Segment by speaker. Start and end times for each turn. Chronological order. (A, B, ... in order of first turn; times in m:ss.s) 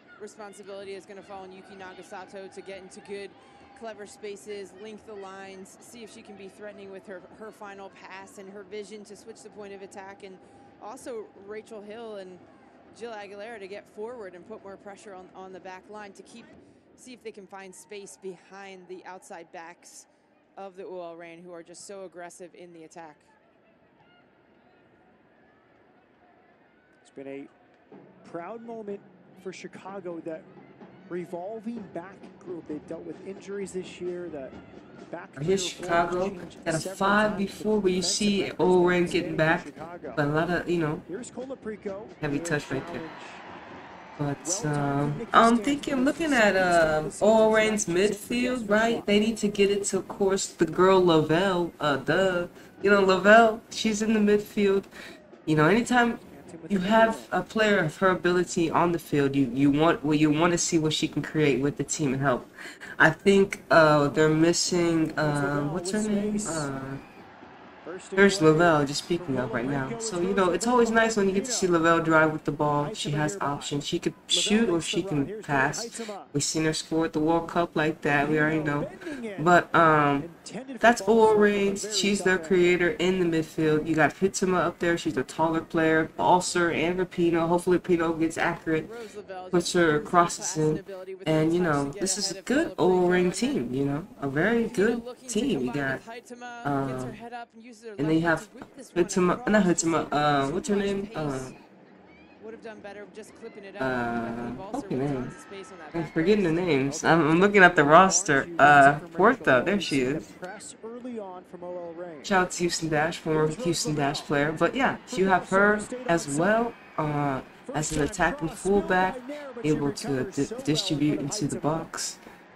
0:00.2-0:23.3 A
0:27.0-0:27.5 B
0:28.2-0:30.5 B
0:31.1-0:40.2 B
0:35.4-0:41.0 C
0:41.1-0:43.4 B
0:42.2-0:43.0 C
0:44.2-0:54.9 C
0:44.4-0:49.1 B
0:55.4-1:07.0 C
0:56.3-0:57.3 B
1:05.2-1:06.7 B
1:07.8-1:11.7 B
1:08.2-1:20.3 C
1:12.8-1:13.8 B
1:14.3-1:16.3 B
1:18.2-1:19.6 B
1:20.2-1:22.7 B
1:20.8-1:28.9 C
1:28.8-1:33.6 A
1:29.5-1:36.0 C
1:34.5-1:41.5 A
1:36.6-1:37.2 C
1:38.0-1:41.5 C
1:42.4-1:46.8 A
1:43.8-1:45.3 C
1:45.9-1:50.3 C
1:46.8-1:52.4 B
1:52.2-2:02.2 C
1:53.3-1:56.6 B
1:57.6-2:01.9 B